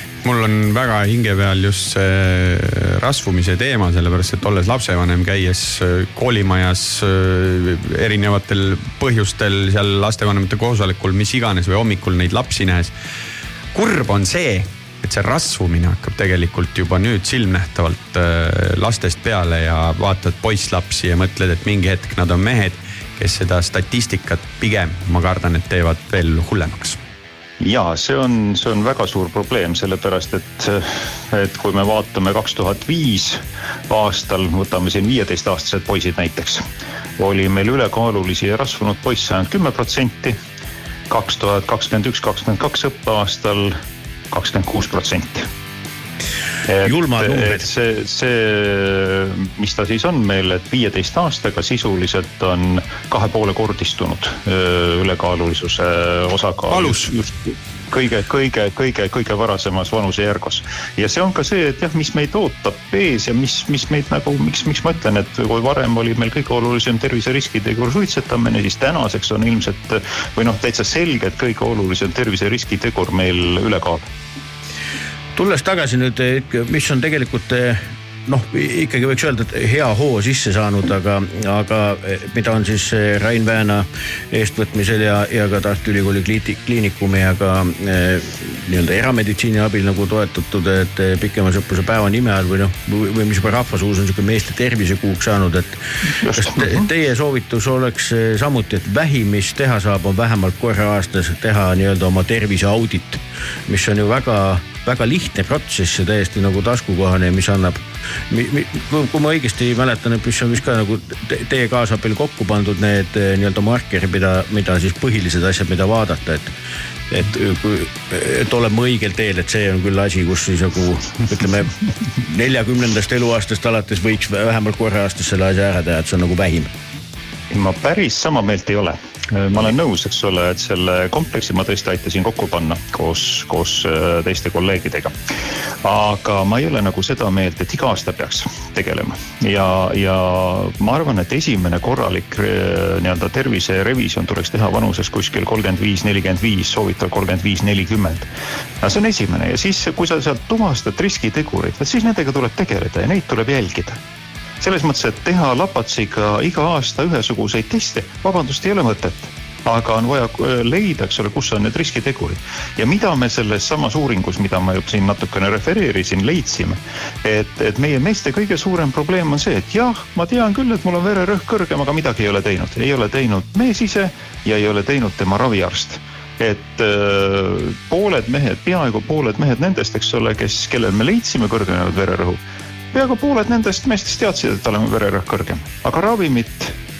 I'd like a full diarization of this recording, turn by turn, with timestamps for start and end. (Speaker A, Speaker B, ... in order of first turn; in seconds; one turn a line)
Speaker A: 0.2-12.9
Speaker A: 13.7-27.0
Speaker B: 27.6-36.6
Speaker B: 37.2-40.4
Speaker B: 41.1-43.8
Speaker B: 44.3-45.5
Speaker B: 46.7-74.1
Speaker C: 46.9-47.6
Speaker A: 56.7-57.1
Speaker C: 75.4-95.8
Speaker B: 96.2-96.7
Speaker C: 96.3-116.5
Speaker C: 117.1-126.7
Speaker B: 127.5-135.1
Speaker B: 135.8-148.3
Speaker B: 148.8-154.0
Speaker B: 154.6-182.4
Speaker B: 182.9-186.7